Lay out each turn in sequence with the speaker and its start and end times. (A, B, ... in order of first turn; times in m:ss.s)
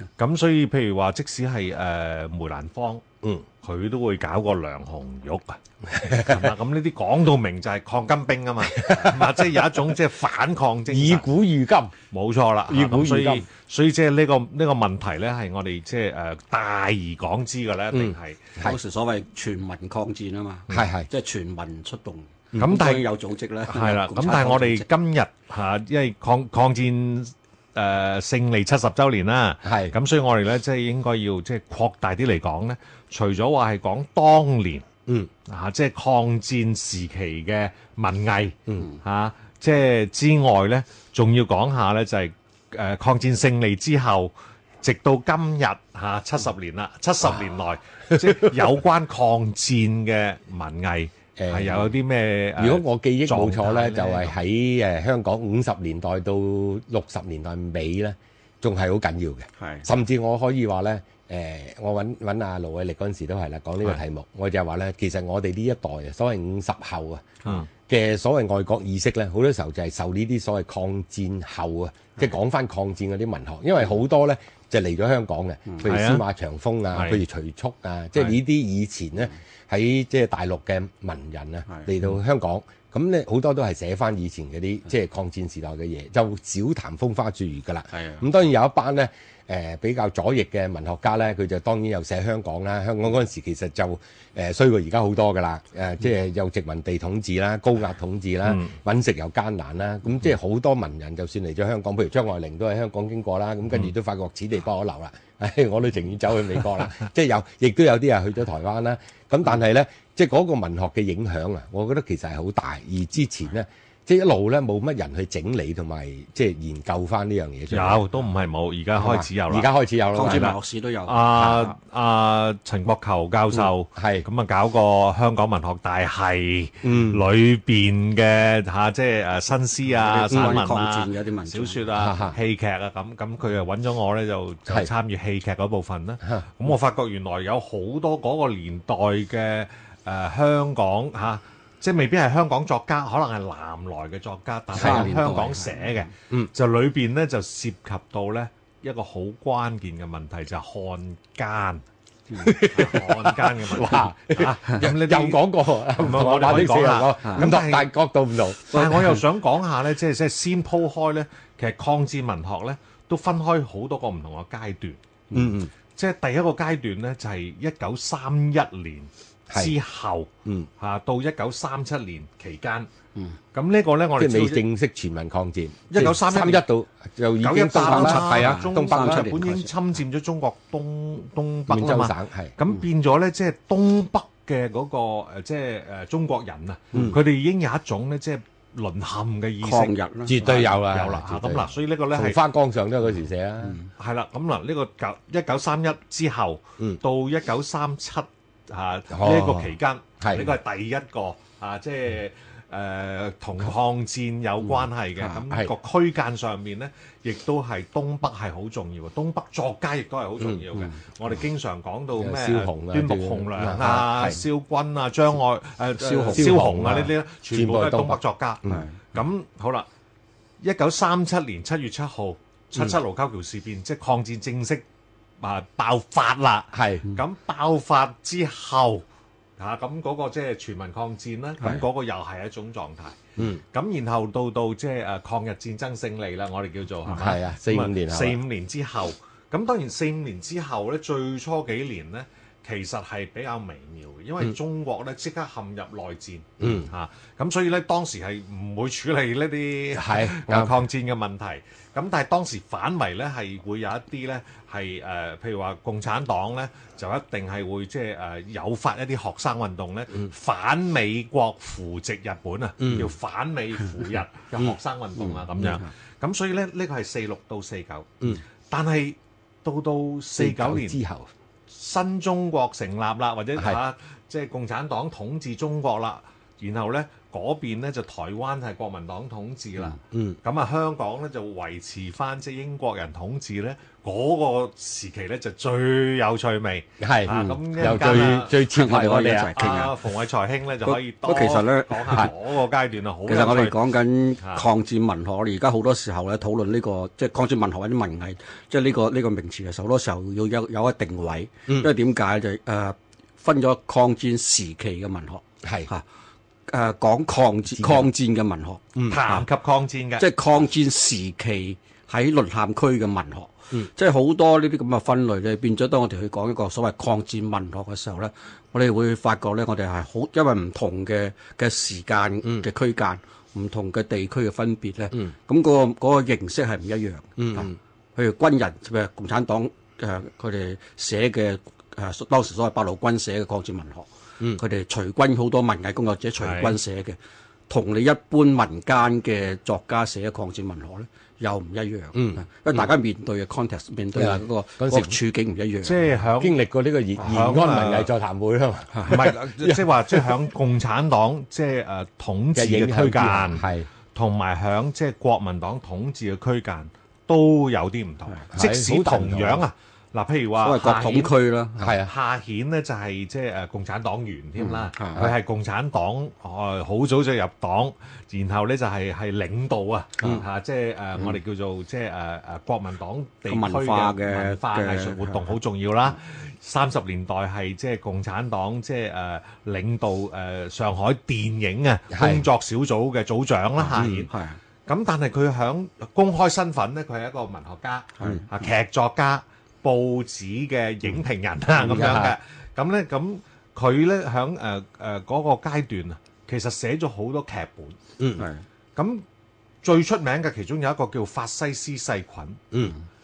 0:00.2-0:03.0 A
0:03.6-0:11.3 A
0:06.0-0:06.4 B
0:08.8-0:09.6 B
0:10.9-0:11.9 B
0:12.1-0:18.5 A
0:12.7-0:13.4 B
0:17.9-0:18.8 B
0:18.6-0:24.9 C
0:20.7-0:21.1 B
0:22.6-0:23.1 A
0:23.7-0:34.8 A
0:29.6-0:29.9 B
0:35.5-0:54.4 A
0:48.1-0:48.6 B
0:51.4-0:51.9 B
0:52.6-1:58.0 B
0:59.6-0:59.8 C
1:15.8-1:16.2 A
1:16.9-1:17.2 A
1:27.9-1:28.2 C
1:38.4-1:38.7 A
1:57.7-2:31.8 A
1:58.9-2:00.5 B
2:00.1-2:01.8 C
2:03.9-2:04.2 B
2:06.8-2:07.2 B
2:09.9-2:12.0 C
2:10.3-2:10.6 B
2:11.9-2:12.4 B
2:16.2-2:16.5 B
2:24.7-2:26.1 C
2:24.7-2:25.1 B
2:32.4-2:38.9 B
2:32.6-2:37.9 A
2:37.2-2:37.5 C
2:38.7-2:45.0 A
2:38.7-2:39.1 C
2:45.3-2:45.7 B
2:46.0-2:52.9 A
2:53.5-2:54.6 A
2:54.2-2:59.4 B
2:55.9-2:56.6 A
2:57.4-3:12.4 A
2:57.8-2:59.7 C
3:01.7-3:02.6 B
3:09.6-3:10.4 C
3:10.2-3:13.8 B
3:14.0-3:39.9 A
3:19.1-3:20.5 B
3:32.2-3:34.4 B
3:36.0-3:38.8 B
3:36.1-3:36.4 C
3:38.7-3:39.0 C
3:40.6-3:44.8 A
3:45.4-3:49.0 A
3:46.7-3:47.1 B
3:49.6-4:31.0 A
3:53.4-3:53.6 B
3:57.0-3:58.4 B
4:06.6-4:06.9 B
4:09.9-4:10.8 B
4:22.8-4:23.1 B
4:25.3-4:25.8 C
4:30.4-4:31.3 B
4:31.7-4:48.7 A
4:40.1-4:40.4 B
4:47.0-4:49.7 B
4:47.3-4:50.0 C
4:49.5-4:53.9 A
4:50.8-4:52.3 C
4:53.2-5:06.0 C
4:54.4-4:54.7 A
5:05.6-5:05.9 B
5:06.7-5:09.4 C
5:07.8-5:08.1 B
5:08.9-5:09.2 B
5:09.1-5:10.3 A
5:10.2-5:37.2 C
5:27.4-5:27.8 B
5:36.4-5:36.8 A
5:37.7-5:46.0 C
5:42.1-5:42.9 B
5:44.1-5:45.2 B
5:45.8-5:46.6 A
5:46.4-5:50.4 B
5:47.2-5:48.1 A
5:49.0-6:24.3 A
5:52.5-5:53.9 B
5:58.5-5:59.6 B
6:00.6-6:02.0 C
6:01.8-6:02.1 B
6:04.6-6:05.3 C
6:13.5-6:15.5 C
6:22.1-6:22.5 B
6:23.8-6:24.6 C
6:24.9-6:38.0 A
6:28.2-6:28.5 C
6:31.8-6:32.4 B
6:38.2-6:38.4 B
6:38.4-6:38.6 C
6:39.0-6:39.2 A
6:39.8-6:42.6 A